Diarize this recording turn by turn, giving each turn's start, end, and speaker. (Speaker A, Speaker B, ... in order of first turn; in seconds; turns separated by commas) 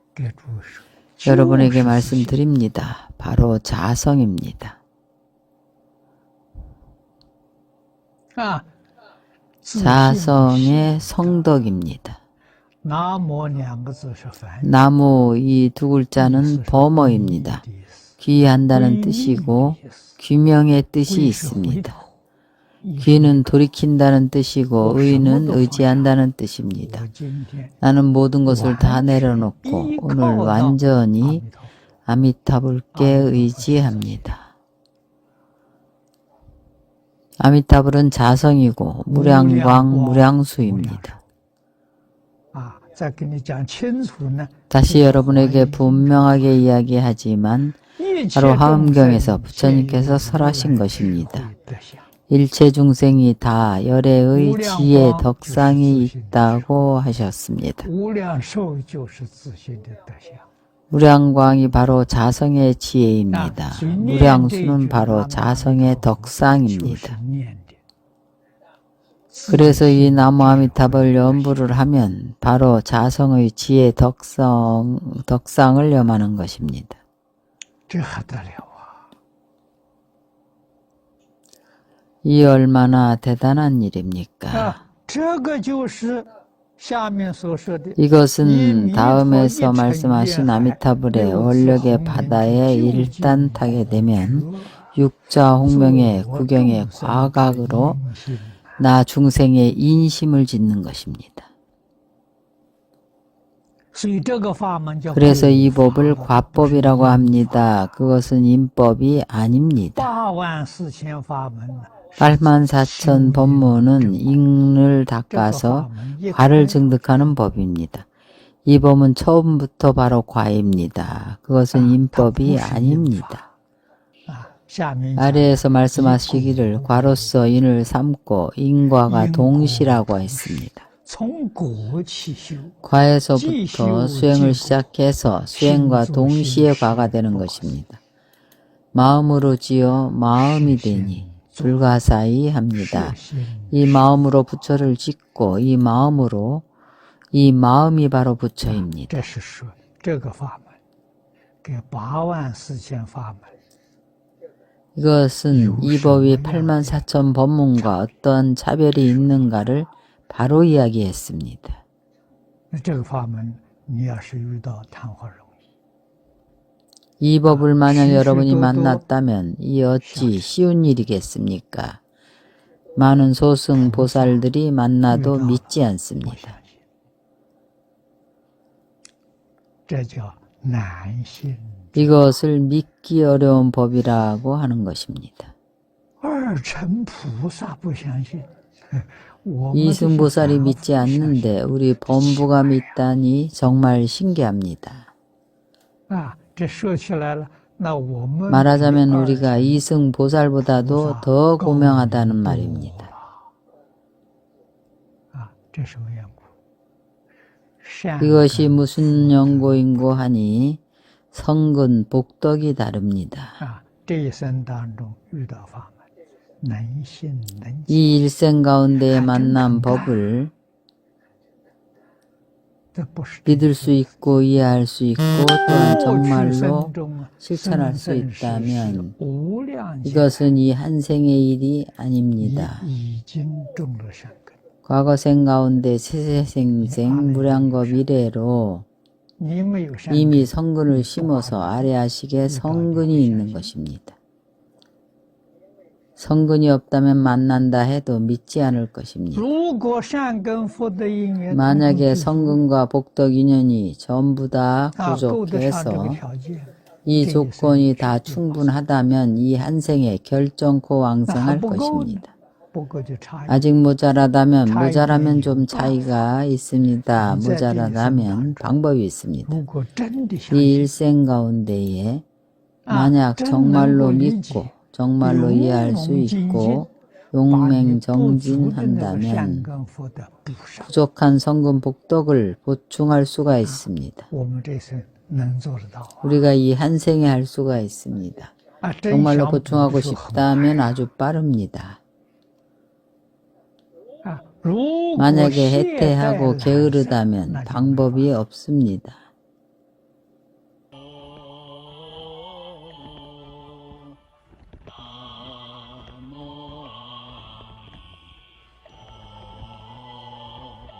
Speaker A: 0.1-2.4, Speaker B: 1.2-4.8, Speaker A: 8.3-8.7, Speaker A: 9.6-11.5, Speaker B: 9.7-12.2, Speaker A: 12.8-14.9, Speaker B: 14.6-17.6, Speaker A: 16.1-20.2, Speaker B: 18.2-22.0, Speaker A: 21.0-22.1, Speaker A: 22.8-23.5, Speaker B: 23.0-27.1, Speaker A: 24.8-26.2, Speaker A: 26.7-27.8, Speaker B: 27.8-31.4, Speaker A: 28.5-31.7, Speaker B: 32.0-34.5, Speaker A: 32.9-34.3, Speaker B: 37.4-41.2, Speaker A: 39.1-41.2, Speaker A: 42.5-46.7, Speaker B: 44.7-47.8, Speaker A: 48.0-52.1, Speaker B: 48.3-51.5, Speaker B: 52.3-57.9, Speaker A: 54.3-56.9, Speaker A: 57.8-60.5, Speaker B: 60.9-67.2, Speaker A: 63.3-67.8, Speaker A: 69.3-71.7, Speaker B: 69.5-77.0, Speaker A: 77.9-79.0, Speaker B: 82.2-84.8, Speaker A: 84.5-94.8, Speaker B: 88.0-98.0, Speaker A: 95.6-98.8, Speaker B: 98.8-101.5, Speaker A: 103.9-107.7, Speaker B: 105.1-110.1, Speaker A: 109.9-114.5, Speaker B: 112.2-118.1, Speaker A: 115.3-117.4, Speaker B: 118.7-123.4, Speaker A: 121.7-123.5, Speaker A: 124.3-127.3, Speaker B: 125.2-130.8, Speaker A: 129.0-132.8, Speaker B: 132.8-138.0, Speaker A: 133.3-134.9, Speaker A: 135.5-137.8, Speaker B: 138.9-143.2, Speaker A: 140.4-141.9, Speaker A: 142.7-144.0, Speaker B: 143.7-146.6, Speaker B: 147.3-149.2, Speaker A: 148.7-150.8, Speaker A: 151.6-153.5, Speaker B: 154.9-161.8, Speaker A: 155.5-157.1, Speaker A: 162.7-165.6, Speaker B: 167.2-172.0, Speaker A: 167.4-169.0, Speaker A: 170.0-170.5, Speaker B: 172.9-176.6, Speaker A: 173.8-174.4, Speaker A: 175.1-176.8, Speaker A: 179.9-182.3, Speaker B: 181.9-185.5, Speaker A: 186.2-192.9, Speaker B: 189.7-195.1, Speaker A: 196.1-199.8, Speaker B: 198.5-203.1, Speaker A: 200.6-203.3, Speaker A: 205.3-206.5, Speaker A: 207.8-210.1, Speaker B: 208.2-210.8, Speaker B: 211.3-213.6, Speaker A: 213.6-216.0, Speaker A: 216.6-218.0, Speaker B: 217.9-220.5, Speaker A: 219.1-220.2, Speaker A: 222.9-224.3, Speaker B: 223.4-229.1, Speaker A: 225.6-230.5, Speaker B: 230.0-232.8, Speaker A: 232.4-234.6, Speaker B: 234.8-238.8, Speaker A: 236.8-238.0, Speaker A: 239.4-241.9, Speaker B: 240.1-244.2, Speaker A: 242.4-243.7, Speaker B: 246.2-249.4, Speaker A: 249.3-252.6, Speaker B: 251.5-256.2, Speaker A: 254.9-258.7, Speaker B: 257.0-262.3, Speaker A: 261.3-263.7, Speaker B: 263.5-269.6, Speaker A: 264.6-266.1, Speaker A: 267.1-268.8, Speaker A: 269.4-270.9, Speaker B: 270.5-272.2, Speaker A: 272.9-276.9, Speaker B: 272.9-279.7, Speaker A: 277.5-280.9, Speaker B: 280.9-284.3, Speaker A: 283.6-286.4, Speaker B: 286.2-288.5, Speaker A: 288.8-291.1, Speaker B: 289.1-292.0, Speaker A: 294.2-298.4, Speaker B: 295.2-299.2, Speaker B: 305.8-306.3